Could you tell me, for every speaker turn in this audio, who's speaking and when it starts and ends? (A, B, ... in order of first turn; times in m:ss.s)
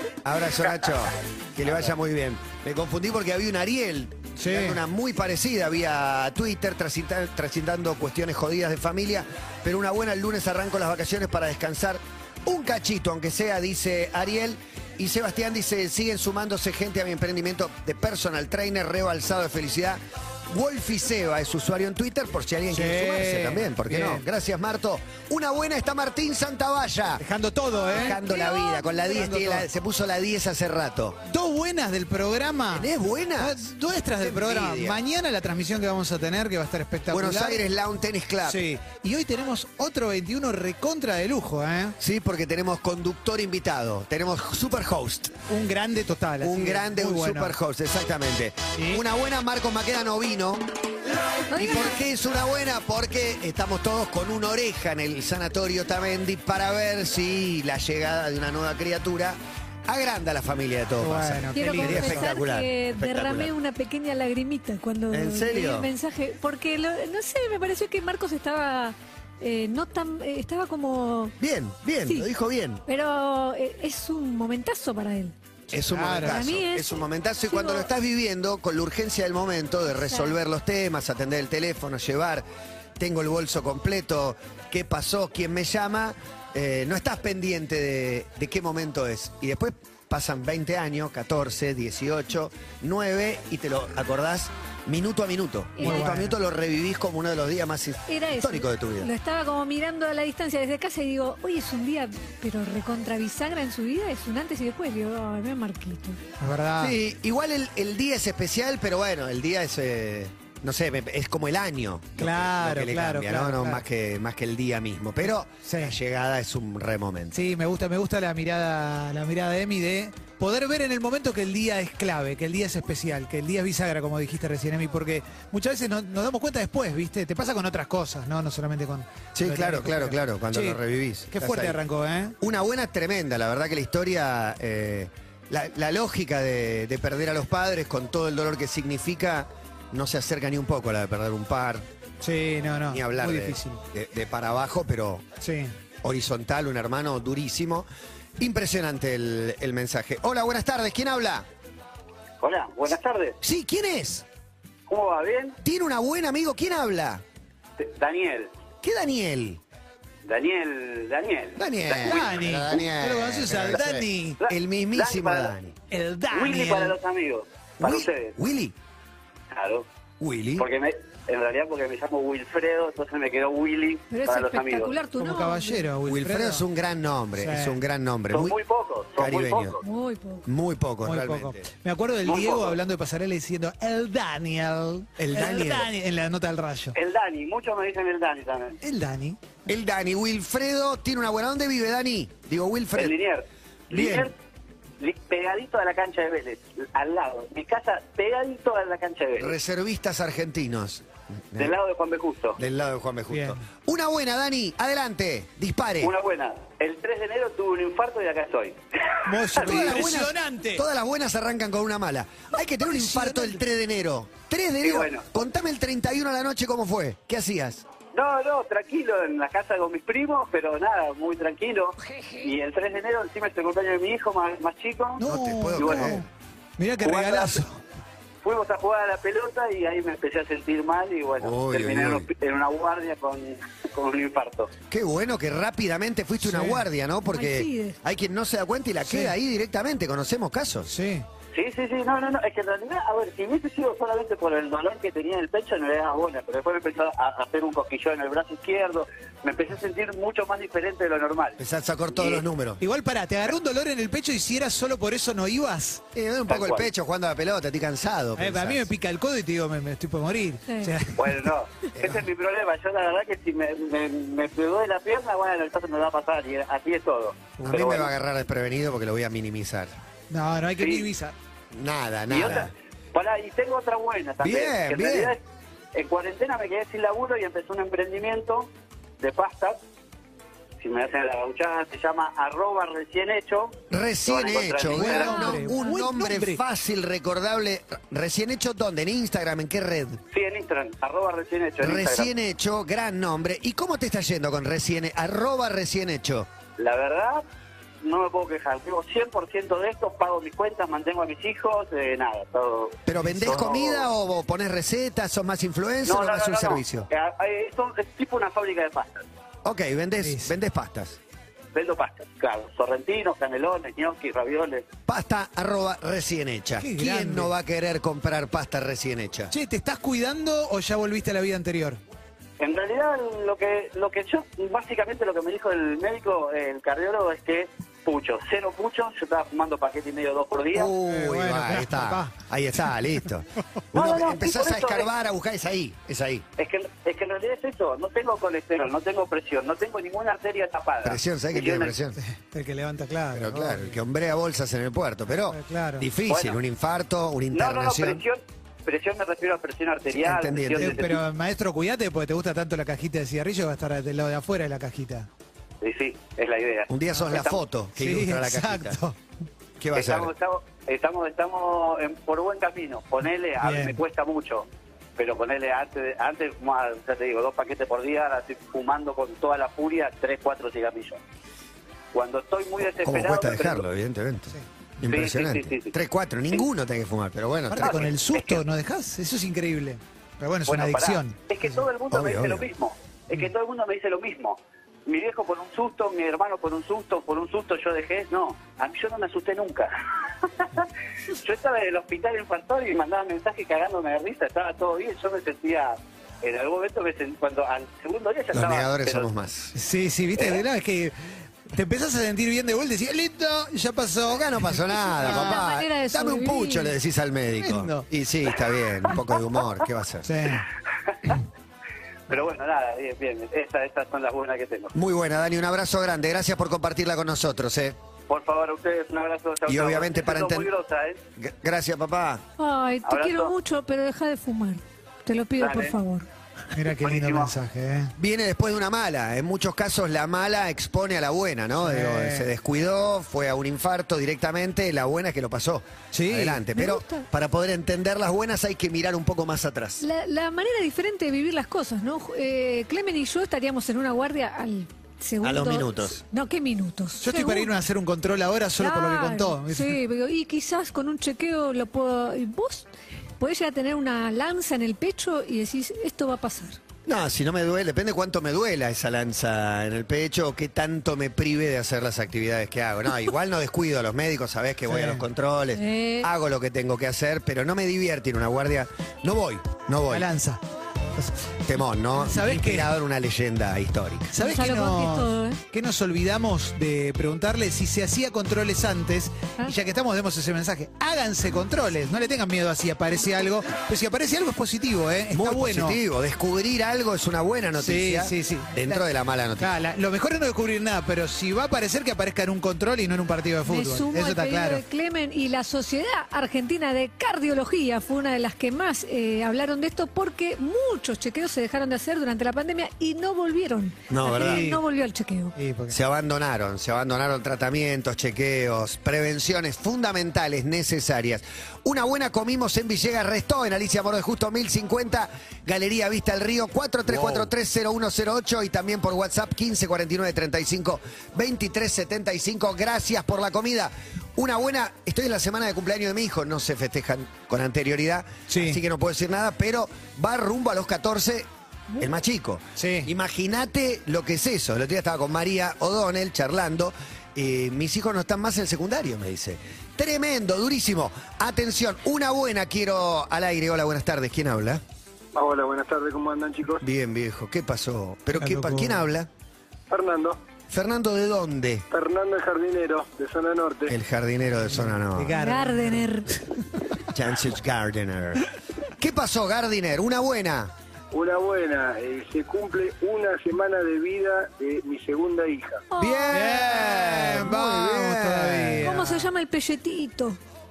0:00.2-0:27.2 A
0:04.4-0:04.8 B
0:22.7-0:24.3 B
0:27.2-0:29.7 B
0:27.9-0:31.2 A
0:28.1-0:28.9 C
0:31.3-0:37.6 B
0:32.7-0:33.6 A
0:34.2-0:35.0 A
0:37.1-0:38.6 A
0:38.4-0:42.0 B
0:42.0-0:45.4 A
0:45.5-0:47.5 B
0:46.4-0:50.7 A
0:48.8-0:49.0 B
0:51.5-0:52.0 C
0:51.6-1:03.5 A
1:01.0-1:02.3 B
1:01.6-1:11.4 C
1:05.1-1:05.9 A
1:11.4-1:12.8 A
1:12.9-1:15.3 C
1:15.7-1:22.4 A
1:15.8-1:16.5 B
1:16.2-1:17.9 C
1:20.0-1:20.3 C
1:23.0-1:39.1 A
1:35.8-1:36.2 C
1:35.8-1:36.4 B
1:38.1-1:46.2 C
1:46.4-1:47.0 B
1:46.8-1:57.4 A
1:52.2-1:53.8 B
1:55.6-1:56.0 B
1:57.3-2:10.8 B
2:09.4-2:11.8 A
2:11.3-2:12.4 B
2:12.4-2:21.9 A
2:22.2-2:23.8 B
2:22.9-2:25.2 A
2:25.4-2:25.8 B
2:26.0-2:27.9 A
2:28.4-2:31.5 A
2:32.4-2:33.4 D
2:33.4-2:34.2 A
2:34.9-2:35.6 D
2:35.6-2:37.2 A
2:37.8-2:38.5 D
2:38.8-2:39.6 A
2:40.2-2:42.3 D
2:41.6-2:45.8 A
2:42.0-2:44.4 B
2:44.4-2:45.5 D
2:45.9-2:47.0 B
2:46.3-2:48.4 D
2:47.8-2:48.8 A
2:49.5-2:49.9 D
2:50.2-2:50.7 A
2:50.6-2:54.9 D
2:54.1-2:55.9 C
2:55.2-2:56.6 B
2:56.0-2:58.6 A
2:57.4-2:57.8 B
2:58.3-2:59.8 D
2:59.2-2:59.8 A
2:59.8-3:00.5 C
3:00.5-3:01.7 A
3:01.0-3:07.0 B
3:02.2-3:02.8 D
3:05.2-3:05.9 A
3:07.0-3:08.8 D
3:08.8-3:09.4 B
3:09.7-3:13.2 A
3:13.0-3:14.3 D
3:13.9-3:14.3 A
3:15.0-3:19.5 D
3:19.4-3:21.8 A
3:21.6-3:22.6 D
3:22.6-3:26.1 A
3:23.3-3:23.6 B
3:26.0-3:30.0 D
3:29.3-3:30.8 B
3:29.6-3:37.8 A
3:32.8-3:33.6 B
3:34.8-3:35.3 D
3:38.1-3:45.2 D
3:45.2-3:46.3 B
3:45.2-3:46.3 A
3:45.8-3:46.1 D
3:46.8-3:47.8 B
3:47.0-3:47.6 D
3:48.4-3:54.7 D
3:51.4-3:52.3 A
3:54.9-4:00.9 A
3:56.4-3:56.8 B
3:57.3-3:58.0 C
3:59.1-3:59.3 B
4:00.9-4:01.3 B
4:01.5-4:11.6 D
4:11.6-4:12.8 A
4:12.1-4:12.4 D
4:12.8-4:16.0 B
4:16.1-4:18.9 A
4:16.5-4:16.9 D
4:18.4-4:21.5 B
4:20.7-4:20.9 C
4:21.2-4:28.1 D
4:27.7-4:29.9 A
4:30.3-4:31.4 B
4:30.8-4:31.1 D
4:31.7-4:32.7 A
4:32.3-4:35.4 D
4:34.4-4:35.4 A
4:35.9-4:39.8 D
4:40.8-4:45.5 D
4:43.9-4:50.2 A
4:45.0-4:46.6 B
4:45.2-4:45.9 C
4:50.3-4:52.3 D
4:51.8-4:56.5 A
4:56.8-4:57.4 D
4:58.0-5:04.1 D
5:03.1-5:07.1 A
5:03.2-5:03.5 B
5:06.1-5:09.2 D
5:09.6-5:11.2 A
5:10.2-5:10.5 B
5:11.7-5:14.9 D
5:15.1-5:19.5 A
5:16.8-5:17.5 B
5:19.5-5:22.0 B
5:22.6-5:30.9 D
5:30.7-5:36.4 A
5:31.0-5:32.4 B
5:33.9-5:35.1 D
5:36.6-5:41.9 D
5:41.0-5:42.2 A
5:42.2-5:44.0 B
5:43.3-5:48.2 A
5:45.5-5:46.1 B
5:46.3-5:46.6 D
5:47.5-5:51.2 D
5:50.1-5:51.0 A
5:50.8-5:55.3 B
5:55.8-5:57.6 D
5:56.9-5:59.0 A
5:58.0-5:59.2 B
5:59.8-6:00.3 A
5:59.9-6:11.2 D
6:03.6-6:04.0 B
6:12.1-6:13.8 D
6:12.9-6:18.1 A
6:15.0-6:15.9 D
6:17.7-6:21.4 B
6:17.8-6:18.6 D
6:20.7-6:29.9 D
6:22.1-6:22.7 A
6:30.6-6:39.3 D
6:38.5-6:39.8 A
6:39.7-6:45.6 B
6:44.3-6:50.3 A
6:45.1-6:46.9 C
6:47.6-6:48.1 B
6:50.2-6:50.7 B
6:52.3-6:54.9 D
6:54.9-6:58.0 A
6:58.3-7:01.2 D
6:59.7-7:00.7 A
7:01.4-7:02.4 A
7:02.6-7:06.3 C
7:03.0-7:03.5 D
7:05.6-7:06.0 D
7:06.7-7:08.1 B
7:07.0-7:07.5 D
7:08.2-7:20.0 A
7:11.8-7:12.5 B
7:16.1-7:16.6 B
7:16.7-7:17.3 C
7:20.0-7:27.7 C
7:25.4-7:26.2 A
7:27.2-7:30.0 B
7:28.8-7:32.9 C
7:33.4-7:36.8 C
7:37.1-7:50.3 A
7:44.9-7:45.2 B
7:45.7-7:46.3 C
7:50.1-7:50.6 B
7:51.7-7:54.3 A
7:52.2-7:52.9 B
7:54.3-8:06.0 B
7:54.4-7:55.6 C
8:05.3-8:09.7 A
8:07.8-8:09.0 B
8:09.6-8:14.8 B
8:13.6-8:25.6 C
8:24.1-8:24.7 A
8:24.3-8:24.8 B
8:25.6-8:26.0 B
8:25.9-8:51.5 A
8:48.5-8:48.8 B
8:52.0-9:04.8 A
8:52.8-8:53.1 B
9:05.3-9:06.8 E
9:06.8-9:09.3 A
9:08.4-9:09.1 B
9:09.9-9:10.4 E
9:10.7-9:11.9 A
9:11.9-9:14.0 E
9:13.9-9:15.4 A
9:14.6-9:16.8 B
9:15.3-9:16.4 C
9:17.1-9:20.7 A
9:21.1-9:25.8 E
9:25.9-9:26.8 C
9:26.0-9:28.9 A
9:26.3-9:29.3 B
9:28.8-9:30.4 C